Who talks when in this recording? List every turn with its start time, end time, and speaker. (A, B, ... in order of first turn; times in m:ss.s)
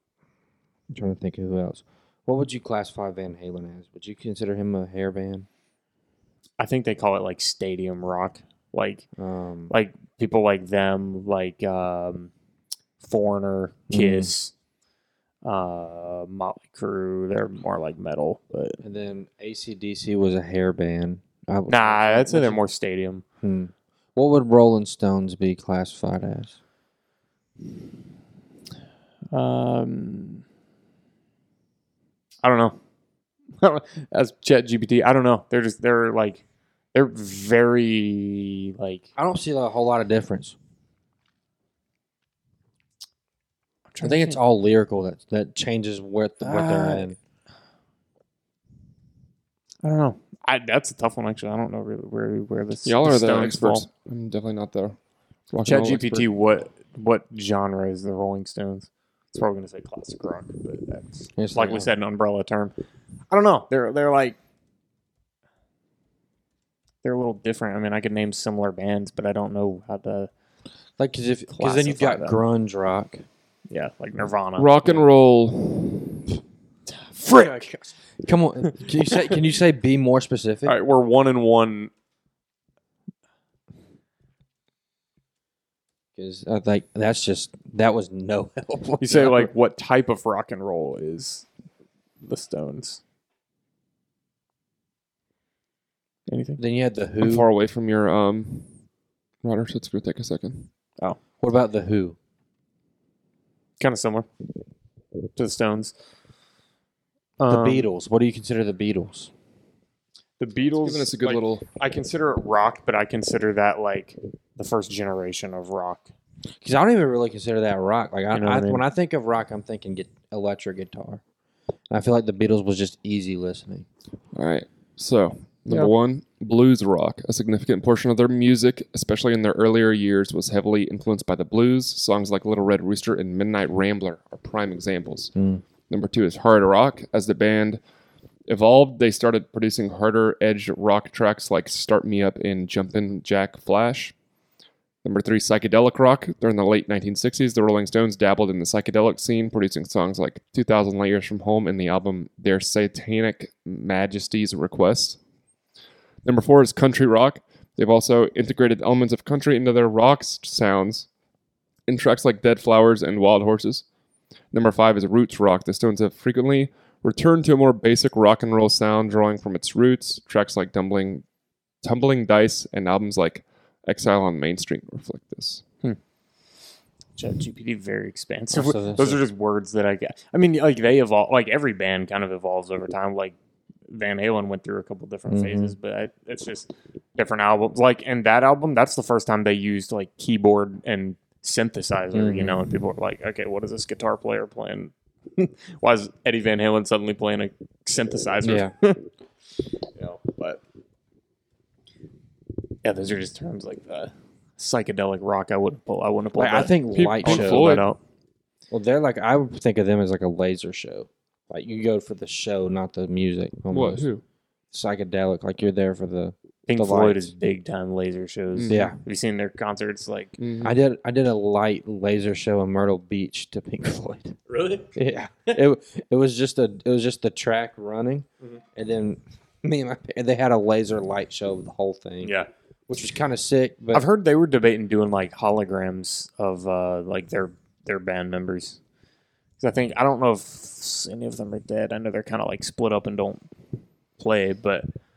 0:00.9-0:05.5 A
0:06.6-0:09.0 B
0:09.2-0:09.7 A
0:09.7-0:12.3 B
0:13.0-0:14.5 B
0:13.9-0:14.3 A
0:15.4-0:18.8 B
0:18.8-0:22.6 A
0:21.7-0:23.2 B
0:23.4-0:26.6 A
0:29.3-0:30.4 B
0:32.4-0:32.8 B
0:33.6-0:39.1 B
0:39.2-0:40.6 A
0:43.9-0:44.4 B
0:44.0-0:47.2 A
0:46.4-0:47.0 B
0:49.8-0:53.9 B
0:52.8-0:55.0 C
0:55.5-0:56.3 C
0:55.6-1:02.7 B
1:01.4-1:01.9 A
1:03.3-1:04.4 B
1:07.0-1:10.3 B
1:11.0-1:13.2 A
1:11.5-1:12.4 B
1:13.7-1:15.1 B
1:14.6-1:16.3 C
1:16.9-1:17.9 B
1:17.3-1:17.6 A
1:18.2-1:20.7 A
1:18.7-1:19.4 B
1:20.6-1:21.9 B
1:26.2-1:29.5 A
1:29.0-1:31.4 B
1:32.2-1:33.0 B
1:36.3-1:36.6 B
1:36.6-1:37.5 A
1:37.2-1:38.7 C
1:39.4-1:40.7 C
1:41.4-1:42.2 A
1:43.8-1:44.3 B
1:45.4-1:45.9 B
1:47.4-1:47.9 B
1:47.5-1:49.3 A
1:50.4-1:56.1 B
1:50.8-1:51.6 C
1:56.6-2:01.2 A
1:58.3-1:58.8 B
2:01.9-2:03.9 A
2:04.3-2:15.3 C
2:15.3-2:15.6 A
2:15.9-2:17.8 C
2:18.5-2:24.1 C
2:25.0-2:35.2 C
2:36.2-2:41.1 C
2:41.9-2:43.8 C
2:44.5-2:51.2 C
2:51.8-2:55.6 C
2:57.2-3:03.4 B
2:58.5-2:59.2 A
3:03.9-3:19.0 B
3:05.3-3:05.7 A
3:12.1-3:12.6 A
3:18.4-3:18.7 A
3:19.9-3:20.6 B
3:22.8-3:28.0 B
3:26.4-3:27.8 A
3:26.9-3:27.9 C
3:28.7-3:34.1 A
3:33.7-3:34.2 C
3:34.7-3:37.3 A
3:36.7-3:40.4 B
3:38.5-3:38.8 C
3:38.7-3:39.0 A
3:40.4-3:40.8 C
3:40.6-3:44.3 A
3:44.5-3:44.9 B
3:44.9-3:52.4 A
3:52.2-3:52.5 B
3:52.9-3:54.0 A
3:53.9-3:58.8 B
3:59.6-4:03.4 B
4:04.2-4:04.9 B